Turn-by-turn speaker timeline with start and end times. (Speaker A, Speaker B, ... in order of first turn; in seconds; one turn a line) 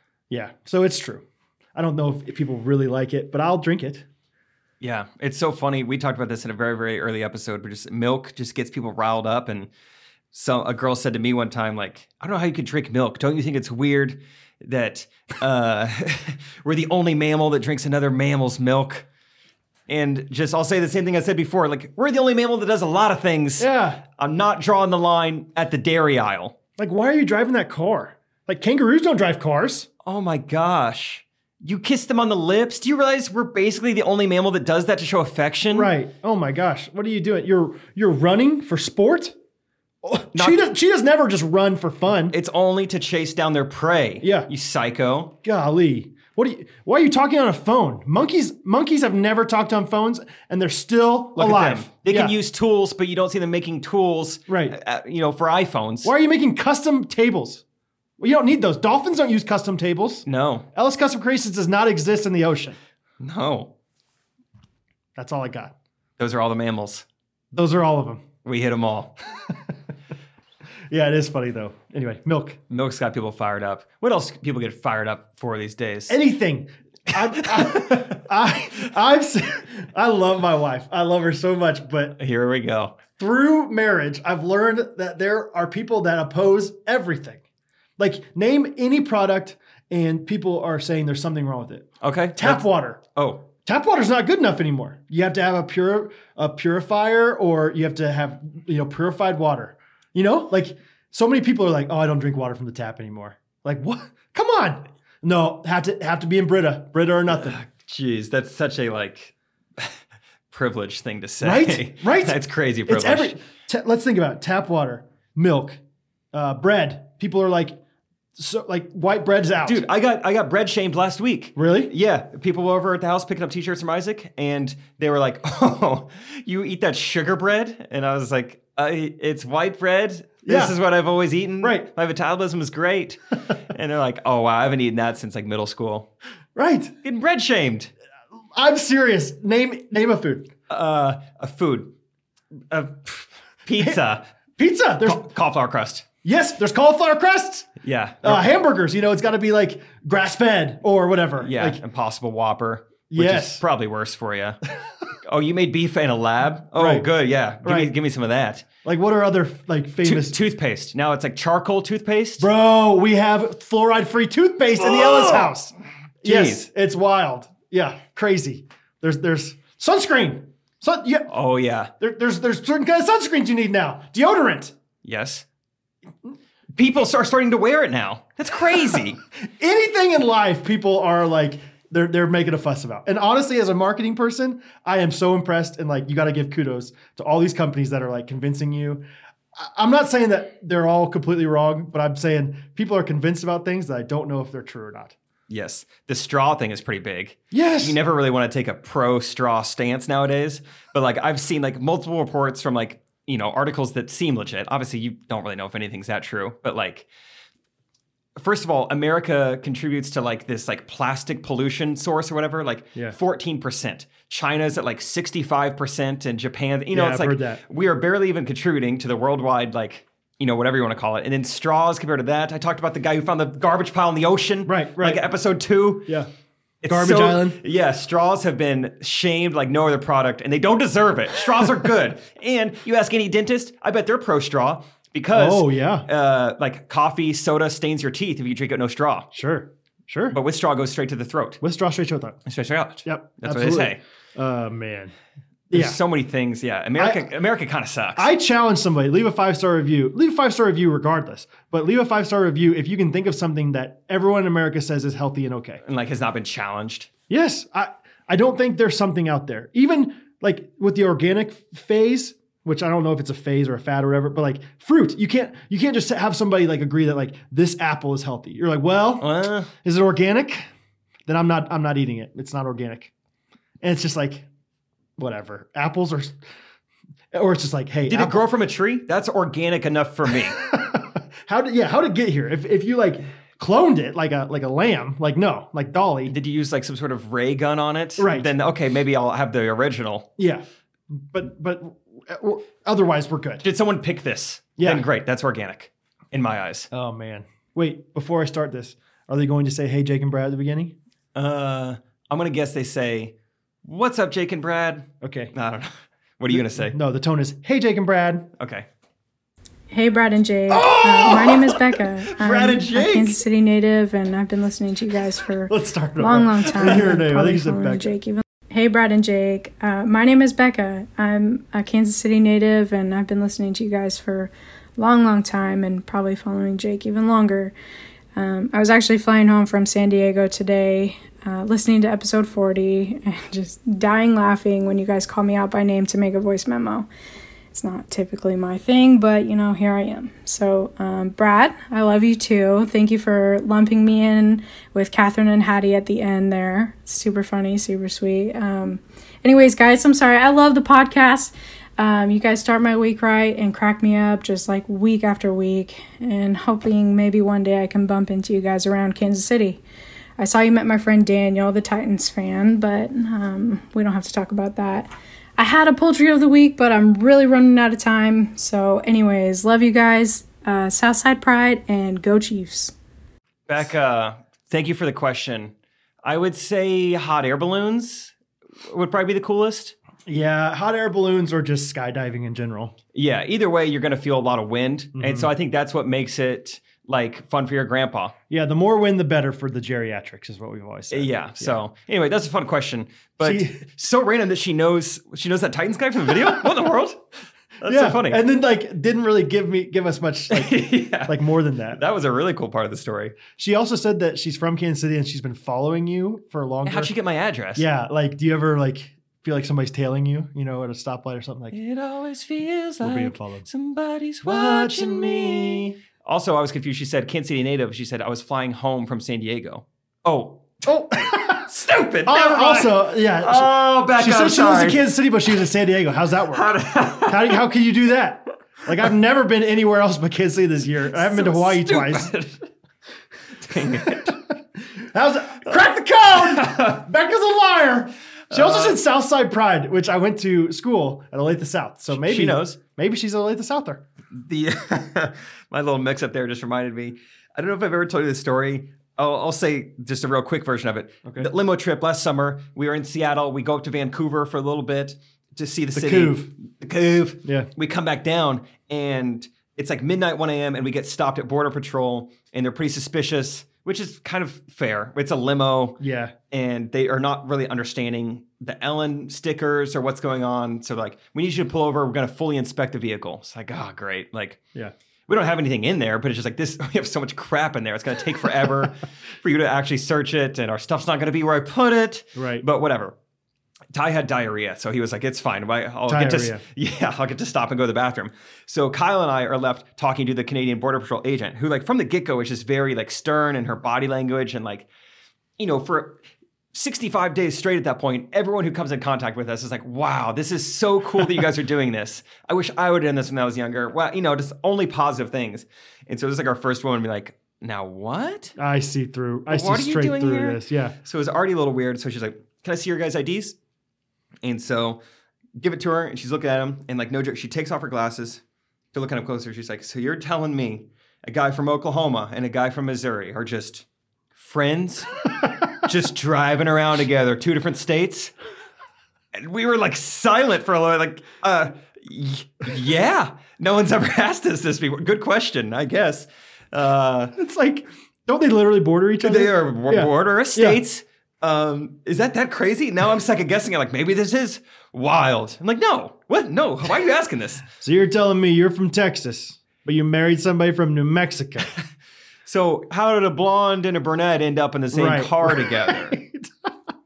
Speaker A: 0.3-1.2
Speaker A: 1.8-4.1
Speaker B: 4.8-9.7
Speaker B: 10.3-19.1
Speaker B: 19.9-26.6
Speaker A: 23.6-24.0
Speaker A: 26.8-29.9
Speaker B: 30.1-35.9
Speaker A: 35.7-39.4
Speaker A: 40.0-42.4
Speaker B: 40.3-40.6
Speaker B: 42.3-45.3
Speaker A: 44.2-44.5
Speaker A: 45.4-52.3
Speaker B: 51.4-56.1
Speaker A: 54.5-54.8
Speaker A: 56.0-57.6
Speaker A: 58.2-62.8
Speaker B: 60.3-60.7
Speaker B: 63.2-63.7
Speaker A: 65.2-65.7
Speaker B: 66.2-67.0
Speaker A: 67.5-68.2
Speaker B: 68.4-69.2
Speaker A: 70.9-72.6
Speaker B: 72.7-76.2
Speaker A: 76.1-82.2
Speaker B: 77.3-78.1
Speaker B: 82.2-83.0
Speaker A: 83.2-87.4
Speaker A: 88.0-93.0
Speaker B: 92.0-93.4
Speaker A: 93.6-107.5
Speaker B: 107.3-110.0
Speaker B: 110.5-113.4
Speaker A: 111.4-115.8
Speaker A: 116.3-117.8
Speaker A: 118.4-119.8
Speaker B: 119.6-136.1
Speaker A: 121.6-121.9
Speaker A: 130.4-130.8
Speaker A: 131.6-131.9
Speaker A: 136.6-136.9
Speaker B: 137.0-137.9
Speaker A: 138.6-140.5
Speaker B: 140.7-141.9
Speaker B: 142.7-144.3
Speaker A: 144.6-145.3
Speaker B: 145.1-146.1
Speaker A: 146.2-147.7
Speaker B: 147.8-148.4
Speaker A: 148.2-151.8
Speaker B: 151.4-154.6
Speaker A: 153.1-153.6
Speaker B: 155.2-158.7
Speaker A: 156.8-157.1
Speaker A: 157.6-157.9
Speaker A: 158.8-160.4
Speaker B: 160.0-162.5
Speaker A: 162.4-171.3
Speaker B: 164.8-165.5
Speaker B: 166.2-166.7
Speaker B: 171.3-171.9
Speaker A: 172.0-174.8
Speaker B: 175.0-175.4
Speaker B: 176.8-179.2
Speaker A: 179.4-189.0
Speaker A: 189.6-195.2
Speaker B: 195.5-207.1
Speaker A: 197.5-198.0
Speaker B: 208.4-226.1
Speaker A: 216.9-217.6
Speaker A: 224.7-225.2
Speaker B: 226.8-239.3
Speaker A: 226.9-227.6
Speaker A: 235.3-236.1
Speaker A: 239.3-240.4
Speaker B: 240.3-241.6
Speaker A: 241.6-242.4
Speaker B: 242.5-244.0
Speaker A: 243.1-245.1
Speaker A: 245.7-246.0
Speaker B: 245.7-248.3
Speaker A: 247.0-247.3
Speaker A: 248.2-255.8
Speaker B: 255.8-257.1
Speaker A: 257.3-270.7
Speaker B: 269.2-269.7
Speaker A: 271.3-273.1
Speaker A: 273.8-274.5
Speaker A: 275.2-276.4
Speaker A: 277.3-278.5
Speaker B: 278.1-280.6
Speaker A: 280.6-286.4
Speaker B: 286.3-290.3
Speaker A: 288.2-288.5
Speaker A: 290.4-290.6
Speaker A: 291.2-293.6
Speaker B: 293.6-296.9
Speaker A: 294.8-295.1
Speaker A: 296.9-300.9
Speaker B: 301.4-303.3
Speaker B: 303.8-307.0
Speaker A: 305.2-305.5
Speaker A: 306.5-308.5
Speaker B: 308.6-308.9
Speaker C: 309.9-327.7
Speaker B: 310.7-313.3
Speaker A: 315.7-318.2
Speaker C: 328.4-337.1
Speaker C: 337.7-359.8
Speaker C: 360.4-372.9
Speaker B: 373.7-375.7
Speaker B: 376.2-378.3
Speaker B: 378.9-379.9
Speaker A: 380.3-382.9
Speaker B: 383.1-388.4
Speaker A: 385.1-385.5
Speaker A: 388.5-391.8
Speaker B: 391.1-397.2
Speaker A: 393.4-393.8
Speaker B: 397.8-398.4
Speaker A: 397.8-402.0
Speaker B: 400.5-401.4
Speaker B: 401.9-403.4
Speaker A: 403.6-407.1
Speaker B: 406.9-407.9
Speaker A: 407.8-411.8
Speaker B: 411.7-420.8
Speaker A: 413.0-413.7
Speaker A: 414.4-416.0
Speaker A: 420.8-421.7
Speaker B: 421.5-425.0
Speaker A: 422.2-432.3
Speaker B: 426.5-427.6
Speaker B: 431.1-432.6
Speaker B: 433.6-434.4
Speaker A: 434.0-434.3
Speaker A: 435.0-444.0
Speaker B: 436.5-437.0
Speaker B: 438.5-439.0
Speaker B: 442.1-442.8
Speaker B: 444.3-466.0
Speaker A: 451.2-451.5
Speaker A: 455.9-456.5
Speaker A: 457.4-457.7
Speaker A: 466.0-466.3
Speaker B: 466.5-474.6
Speaker B: 475.3-483.1
Speaker A: 482.4-482.6
Speaker B: 483.9-494.9
Speaker A: 486.1-486.6
Speaker B: 495.6-496.2
Speaker B: 496.7-508.5
Speaker A: 508.6-511.0
Speaker B: 509.5-513.6
Speaker B: 514.4-515.0
Speaker B: 515.6-518.4
Speaker B: 518.9-523.9
Speaker B: 524.4-525.1
Speaker B: 525.8-528.3
Speaker B: 529.3-537.3
Speaker A: 537.4-540.8
Speaker B: 539.2-547.6
Speaker A: 547.8-551.7
Speaker B: 552.5-556.2
Speaker A: 554.9-556.5